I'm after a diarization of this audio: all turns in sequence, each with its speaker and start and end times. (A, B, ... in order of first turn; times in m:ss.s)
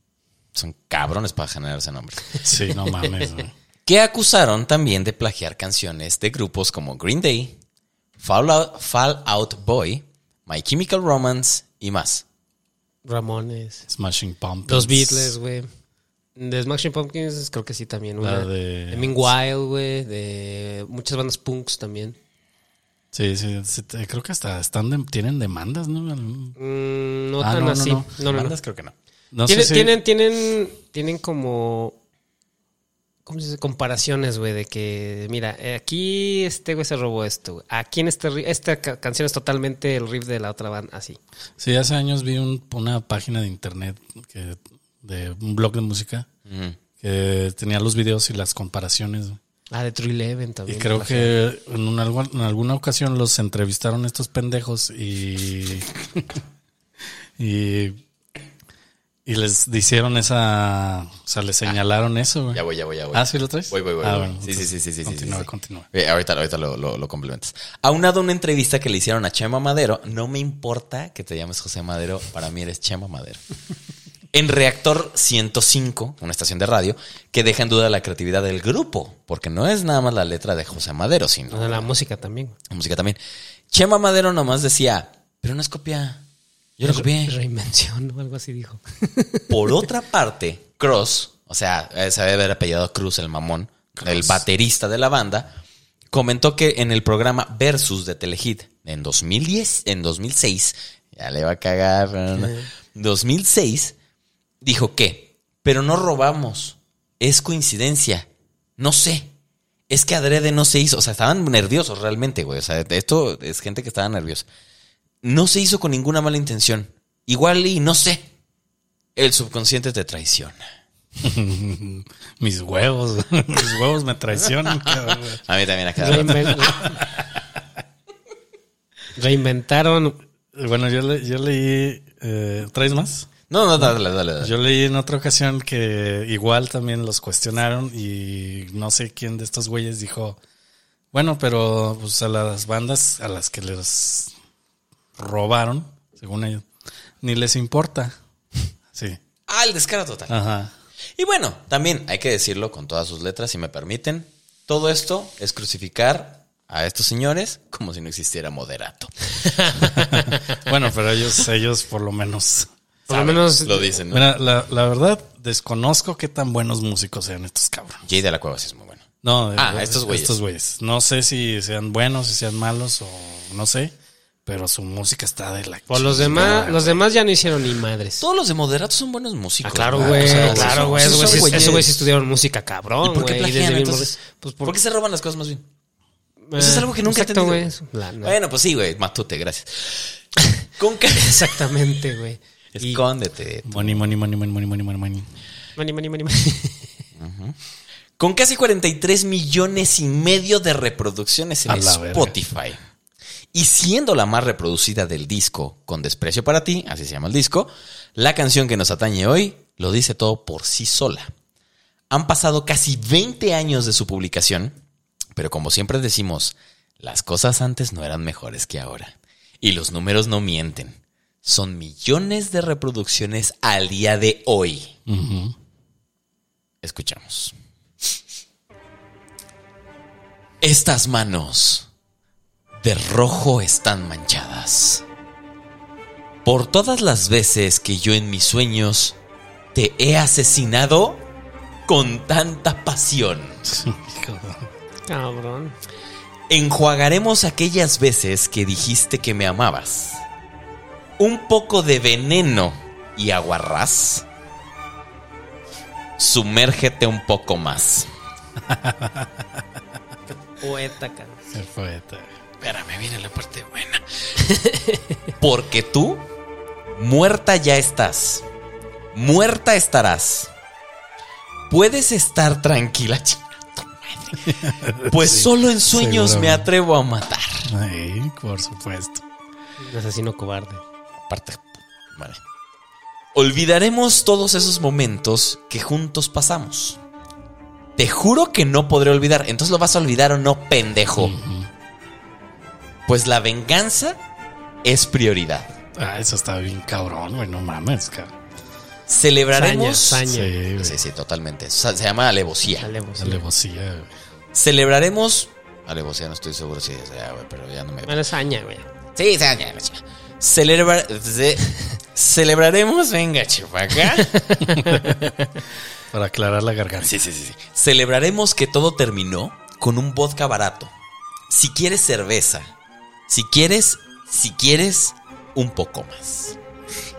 0:00.5-0:02.3 A
0:02.4-0:03.5 B
0:03.8-0:07.6 A
0:08.2-0:12.2 A
0:13.0-0:13.9 C
0:13.9-0:15.3 B
0:14.7-0:15.7 C
0:16.4-0:22.2 C
0:18.2-0:19.3 B
0:23.1-0:26.5 B
0:26.6-0:28.6 C
0:27.4-0:28.1 B
0:28.2-0:28.9 A
0:29.3-0:30.0 B
0:29.5-0:32.0 C
0:33.2-0:41.2 C
0:41.6-0:46.3 B
0:46.5-0:46.8 A
0:47.0-0:49.4 B
0:49.7-0:51.3 C
0:50.7-0:56.4 B
0:57.4-0:58.0 B
0:59.2-1:05.9 B
1:02.5-1:13.4 A
1:14.3-1:21.9 A
1:21.5-1:22.6 C
1:22.7-1:23.2 A
1:23.7-1:26.2 A
1:26.8-1:27.4 A
1:26.8-1:29.8 C
1:29.5-1:35.6 A
1:36.1-1:43.9 A
1:42.4-1:42.7 C
1:44.6-1:48.3 A
1:48.8-1:49.3 A
1:49.9-1:54.5 A
1:55.2-1:58.3 A
1:59.2-2:00.6 A
2:01.2-2:05.4 B
2:05.4-2:06.9 A
2:06.0-2:07.0 C
2:06.0-2:07.2 B
2:09.2-2:10.2 C
2:10.5-2:20.4 B
2:13.5-2:14.5 A
2:21.1-2:24.3 B
2:25.2-2:26.6 B
2:27.2-2:28.2 B
2:28.9-2:29.2 B
2:29.5-2:30.4 A
2:30.3-2:30.7 B
2:31.2-2:40.0 A
2:39.6-2:40.3 C
2:40.1-2:42.7 B
2:43.1-2:44.3 A
2:43.1-2:43.9 C
2:44.1-2:48.0 B
2:48.0-2:49.0 A
2:49.2-2:53.9 B
2:49.6-2:50.4 A
2:54.4-2:57.0 B
2:55.9-2:58.2 C
2:58.2-3:01.9 A
2:59.6-3:04.8 C
2:59.9-3:01.9 B
3:03.0-3:05.6 A
3:06.5-3:08.4 C
3:06.6-3:07.7 A
3:08.2-3:10.2 A
3:10.7-3:11.7 A
3:11.1-3:13.0 C
3:12.8-3:14.1 A
3:13.6-3:15.3 B
3:15.8-3:16.9 C
3:17.2-3:17.6 A
3:18.2-3:22.8 A
3:21.7-3:22.3 B
3:23.5-3:31.3 A
3:32.1-3:34.8 A
3:35.3-3:45.0 A
3:45.1-3:45.5 B
3:46.8-3:47.5 A
3:50.6-3:51.9 A
3:52.8-3:55.0 A
3:56.4-3:59.2 A
3:59.7-4:01.3 A
4:01.9-4:03.6 A
4:03.6-4:04.7 B
4:05.1-4:05.8 C
4:06.5-4:10.2 A
4:11.2-4:14.2 A
4:16.2-4:18.1 A
4:18.6-4:19.6 B
4:20.6-4:21.4 C
4:21.5-4:22.3 B
4:22.6-4:24.0 A
4:24.4-4:25.0 C
4:25.4-4:26.2 A
4:26.9-4:28.4 A
4:29.1-4:30.5 A
4:31.7-4:37.7 A
4:34.5-4:36.7 B
4:37.7-4:39.2 B
4:39.8-4:40.8 C
4:41.3-4:42.4 A
4:43.3-4:47.0 A
4:48.0-4:51.3 A
4:51.2-4:51.7 B
4:53.1-4:54.2 A
4:54.8-4:55.8 A
4:55.9-4:58.3 B
4:59.1-5:02.9 A
4:59.5-5:00.5 C
5:00.2-5:01.0 B
5:02.8-5:03.4 C
5:03.2-5:04.1 B
5:04.5-5:08.2 A
5:08.0-5:08.9 C
5:09.1-5:14.4 A
5:14.3-5:15.2 C
5:14.7-5:15.3 B
5:16.1-5:17.2 B
5:17.0-5:20.9 A
5:21.5-5:22.7 A
5:23.3-5:26.6 A